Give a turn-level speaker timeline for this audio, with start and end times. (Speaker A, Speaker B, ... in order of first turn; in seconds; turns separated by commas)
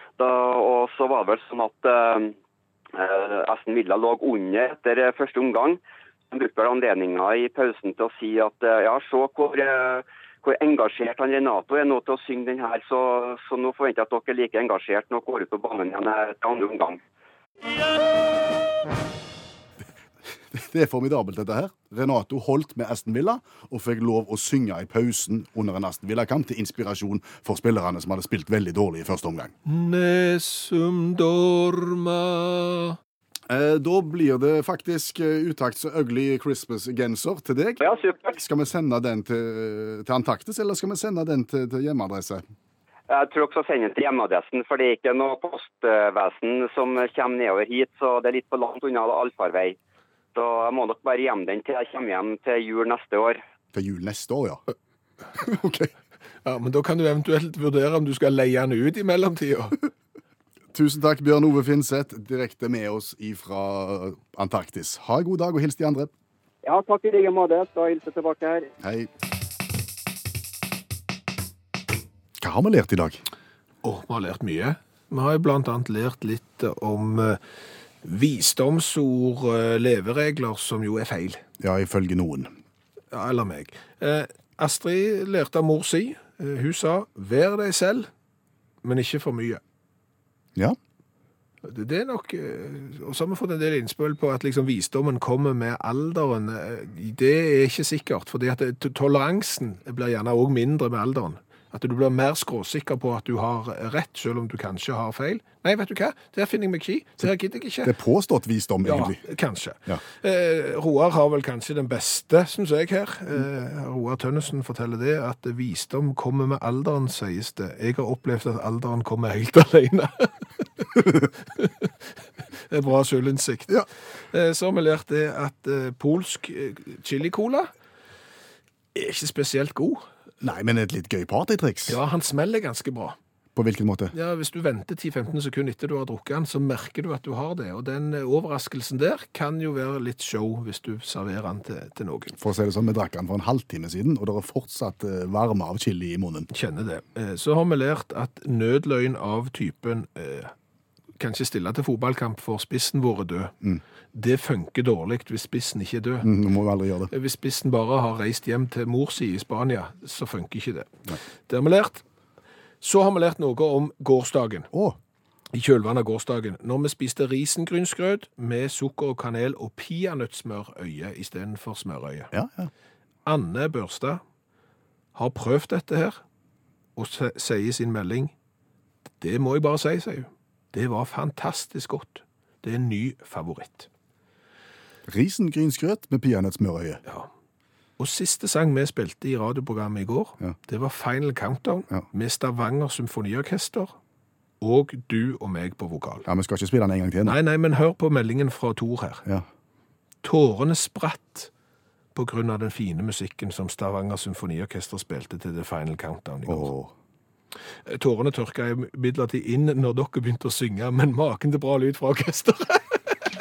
Speaker A: 0.2-2.3, Speaker A: 2.9-5.8, Speaker A: 6.3-17.0, Speaker B: 20.5-29.5, Speaker C: 29.6-33.0, Speaker B: 33.5-42.4, Speaker A: 37.8-38.4, Speaker A: 43.1-49.8, Speaker A: 50.4-53.4, Speaker B: 53.7-54.6, Speaker B: 55.4-55.9, Speaker C: 56.4-59.8, Speaker B: 60.7-66.1, Speaker A: 66.7-68.7, Speaker B: 68.8-69.1, Speaker B: 72.4-73.2, Speaker C: 73.8-77.4, Speaker C: 78.0-81.4, Speaker B: 81.6-82.5, Speaker C: 83.1-88.1, Speaker C: 88.8-89.6, Speaker C: 91.6-108.0, Speaker B: 107.8-109.2, Speaker C: 108.8-121.9, Speaker C: 122.7-127.7, Speaker C: 128.9-130.1, Speaker B: 130.4-132.0, Speaker C: 131.9-133.2, Speaker B: 133.6-134.1, Speaker C: 134.1-142.3, Speaker B: 142.4-146.5, Speaker C: 146.5-150.5, Speaker C: 151.2-153.5, Speaker C: 154.1-156.3, Speaker B: 156.2-157.1, Speaker C: 157.1-162.0, Speaker C: 162.8-164.7, Speaker B: 164.7-165.0, Speaker C: 165.5-172.3, Speaker B: 172.3-172.7, Speaker C: 173.2-174.2, Speaker C: 175.2-176.2, Speaker C: 177.0-178.3, Speaker C: 179.2-183.9, Speaker B: 185.1-187.0, Speaker C: 188.0-194.0, Speaker C: 194.6-196.3, Speaker B: 196.3-197.4, Speaker C: 197.2-199.2, Speaker C: 200.2-201.5, Speaker C: 202.2-206.7, Speaker B: 206.5-206.9, Speaker C: 207.9-213.0